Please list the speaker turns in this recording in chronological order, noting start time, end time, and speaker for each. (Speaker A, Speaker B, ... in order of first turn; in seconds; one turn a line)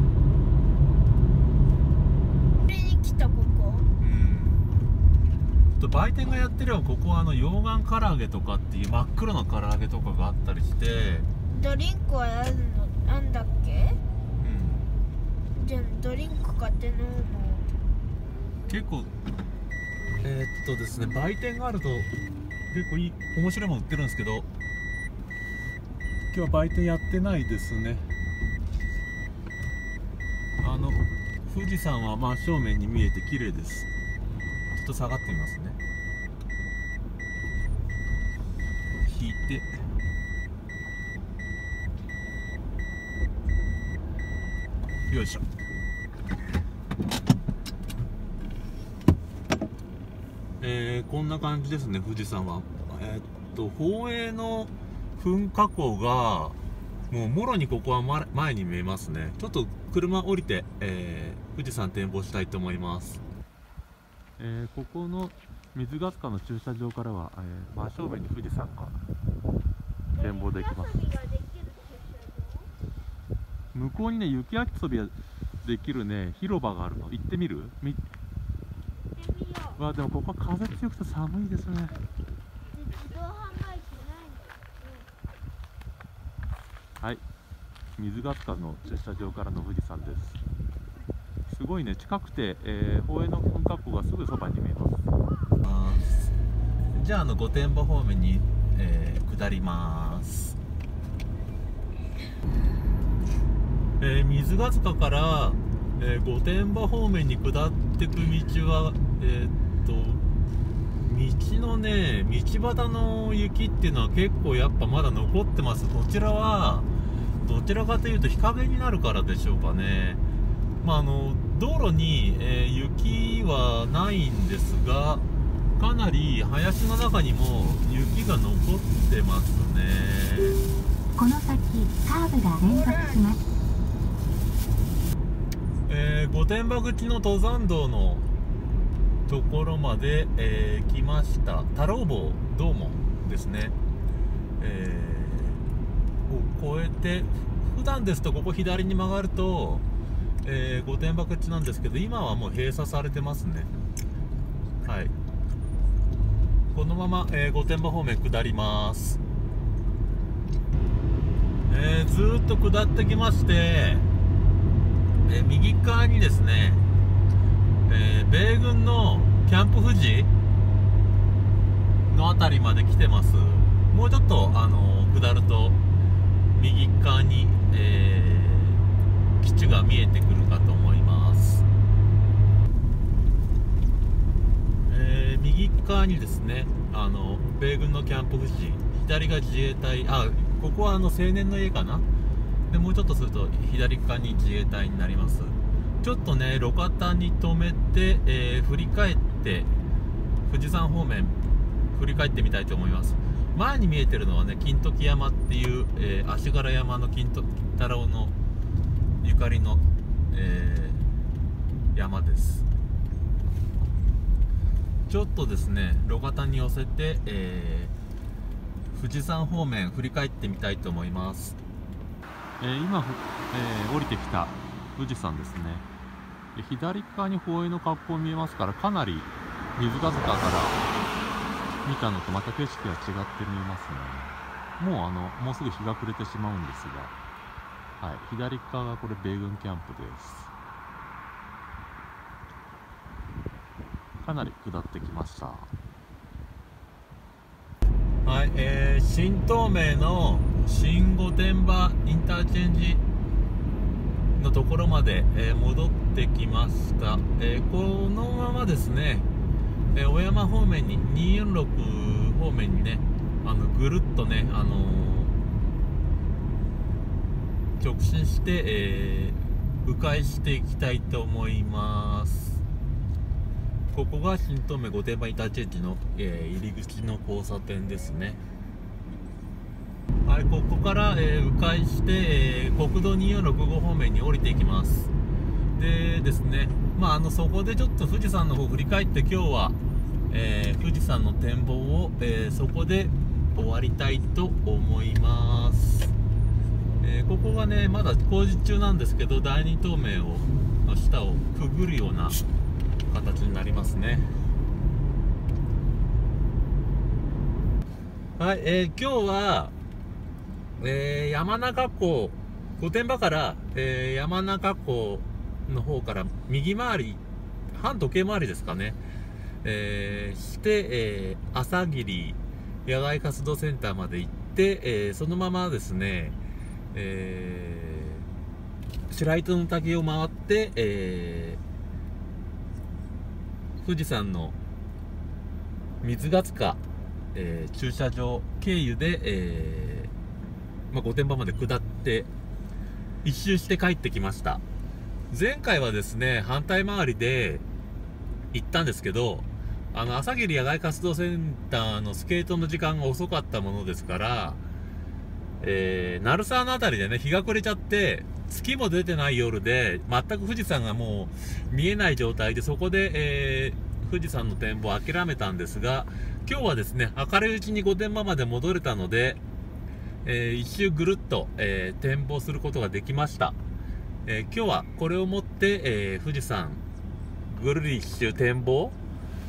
Speaker A: 2.5-3.9
Speaker B: 4.0-4.7
Speaker B: 5.8-11.3
Speaker A: 11.5-14.0
Speaker B: 14.4-14.9
Speaker A: 15.5-17.7
Speaker B: 18.7-19.1
Speaker B: 20.2-22.1
Speaker B: 22.7-24.5
Speaker B: 26.3-28.1
Speaker B: 30.6-33.9
Speaker B: 34.7-35.8
Speaker B: 39.0-39.7
Speaker B: 45.1-45.4
Speaker B: 50.6-56.6
Speaker B: 57.1-63.2
Speaker B: 64.4-69.0
Speaker A: 70.1-72.7
Speaker B: 70.2-71.0
Speaker B: 73.7-78.0
Speaker A: 79.1-79.8
Speaker B: 79.8-81.9
Speaker A: 82.7-85.0
Speaker B: 88.0-90.4
Speaker B: 91.5-95.1
Speaker B: 95.6-96.3
Speaker B: 96.9-100.6
Speaker B: 104.0-110.2
Speaker B: 111.0-116.9
Speaker B: 117.4-120.2
Speaker B: 120.8-125.2
Speaker B: 125.8-130.6
Speaker C: 131.1-133.4
Speaker A: 132.6-133.2
Speaker B: 135.9-138.3
Speaker B: 139.3-143.8
Speaker B: 144.6-145.6
Speaker B: 146.3-149.8
Speaker B: 150.4-153.7
Speaker B: 154.8-155.1
Speaker B: 156.7-159.2
Speaker B: 161.7-164.1
Speaker B: 165.2-166.8
Speaker B: 167.9-170.3
Speaker B: 172.1-175.8
Speaker B: 176.5-178.8
Speaker B: 179.4-181.6
Speaker B: 184.9-192.1
Speaker B: 192.7-199.7
Speaker B: 200.4-201.4
Speaker B: 201.9-208.3
Speaker B: 209.2-211.0
Speaker B: 211.9-212.7
Speaker B: 215.1-217.9
Speaker B: 218.9-221.6
Speaker B: 222.6-225.8
Speaker B: 226.5-230.8
Speaker B: 231.8-237.2
Speaker B: 238.0-240.5
Speaker B: 244.2-245.7
Speaker B: 248.2-253.0
Speaker B: 254.4-259.3
Speaker B: 259.9-265.4
Speaker B: 267.8-272.6
Speaker B: 273.9-278.4
Speaker B: 280.2-285.1
Speaker B: 285.8-289.8
Speaker B: 290.3-296.1
Speaker B: 297.0-302.4
Speaker B: 303.1-304.3
Speaker B: 308.4-309.7
Speaker B: 310.8-319.0
Speaker B: 319.6-326.4
Speaker B: 326.9-328.3
Speaker B: 329.1-331.6
Speaker B: 333.8-334.6
Speaker B: 336.0-336.8
Speaker B: 337.3-340.1
Speaker B: 340.9-342.3
Speaker B: 343.2-344.6
Speaker B: 345.3-347.6
Speaker B: 348.5-354.6
Speaker B: 355.6-369.4
Speaker B: 370.2-373.6
Speaker B: 374.2-376.8
Speaker B: 377.5-378.9